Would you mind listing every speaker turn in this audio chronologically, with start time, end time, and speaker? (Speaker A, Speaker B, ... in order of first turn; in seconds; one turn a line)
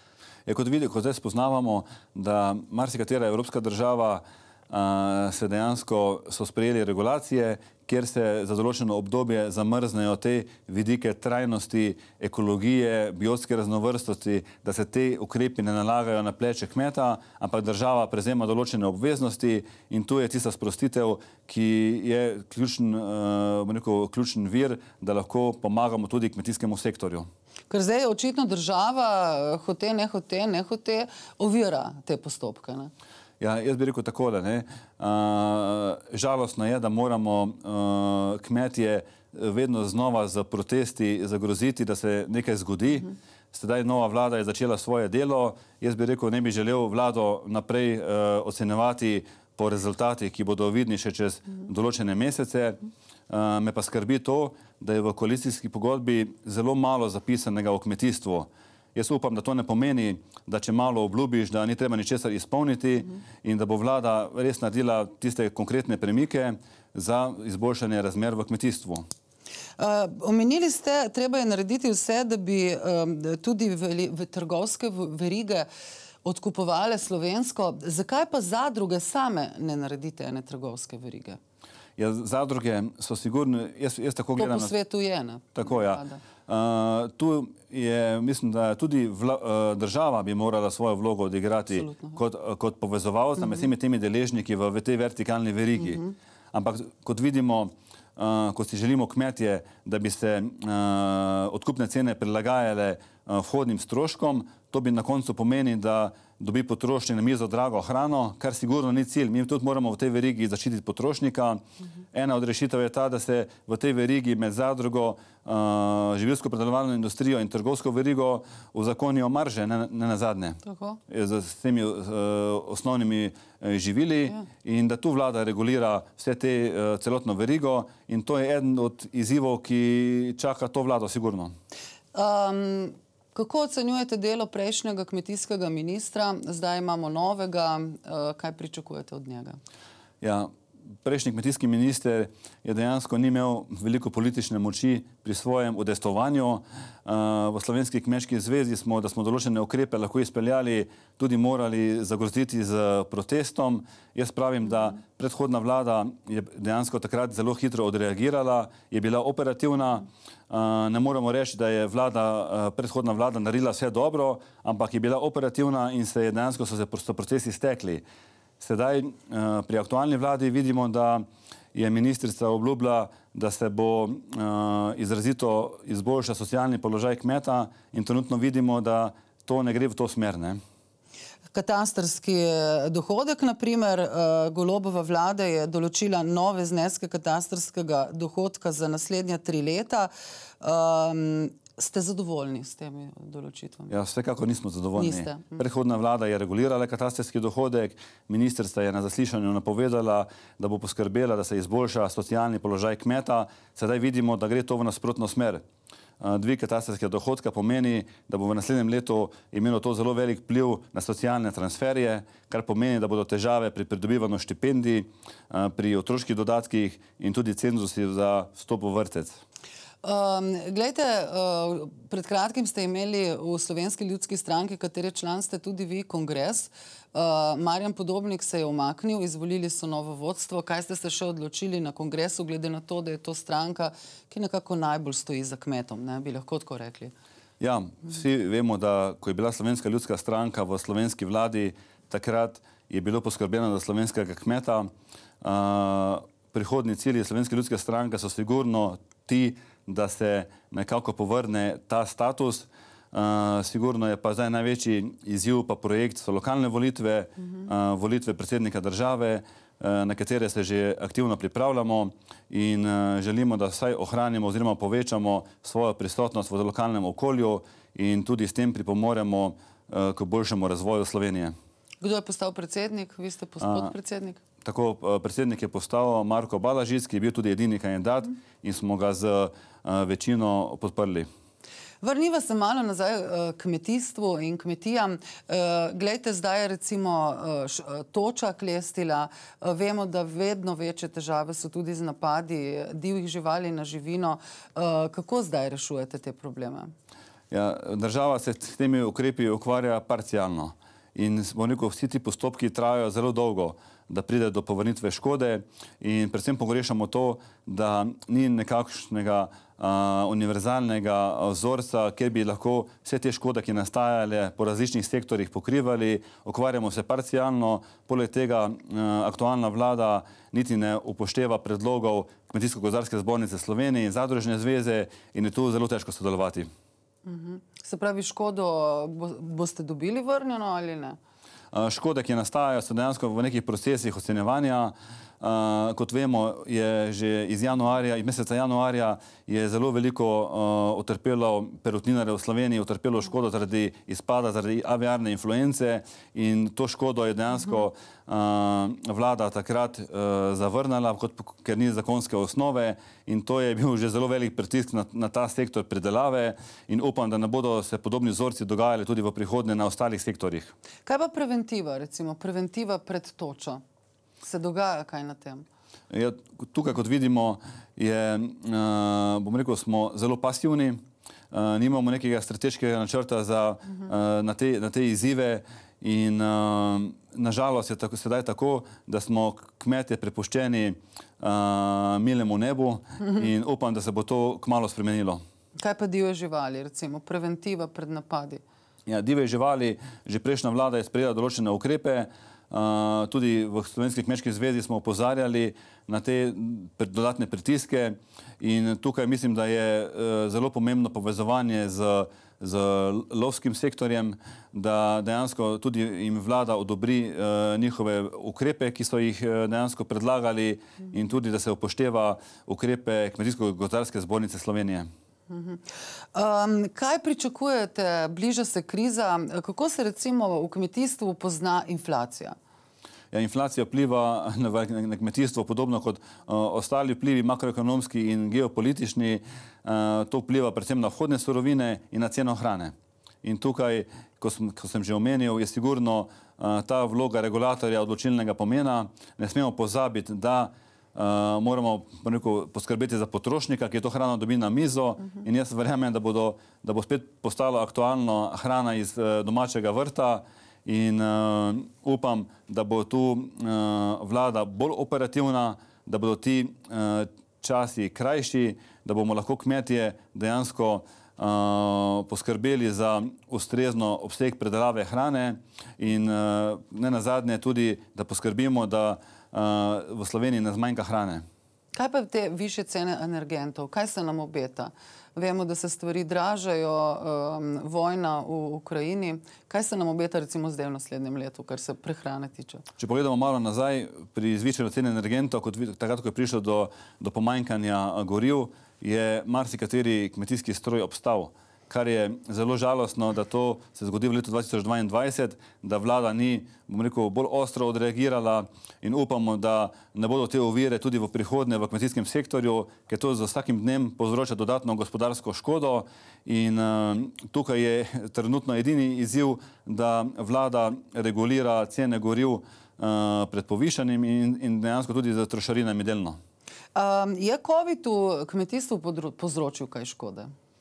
Speaker A: 0.5-27.3
Speaker B: 27.7-32.9
Speaker A: 33.4-69.0
Speaker B: 69.8-75.7
Speaker B: 76.2-81.4
Speaker A: 82.0-84.7
Speaker B: 84.4-86.2
Speaker A: 85.5-111.6
Speaker A: 112.1-131.5
Speaker B: 120.6-121.0
Speaker B: 132.1-139.6
Speaker A: 140.2-140.5
Speaker A: 141.0-168.0
Speaker A: 168.6-180.6
Speaker B: 181.5-193.9
Speaker A: 193.9-205.6
Speaker B: 195.0-195.6
Speaker A: 206.2-219.4
Speaker B: 220.0-237.1
Speaker A: 237.6-244.9
Speaker A: 245.4-271.6
Speaker B: 272.0-274.4
Speaker A: 273.6-273.9
Speaker A: 274.6-281.3
Speaker B: 282.0-296.9
Speaker A: 297.5-326.7
Speaker B: 327.2-331.2
Speaker A: 331.7-360.7
Speaker B: 361.1-363.8
Speaker B: 364.4-365.7
Speaker A: 366.1-385.4
Speaker B: 385.8-388.6
Speaker A: 389.1-415.1
Speaker B: 415.5-422.6
Speaker A: 423.3-471.4
Speaker B: 471.9-482.9
Speaker A: 483.0-516.4
Speaker B: 517.0-520.5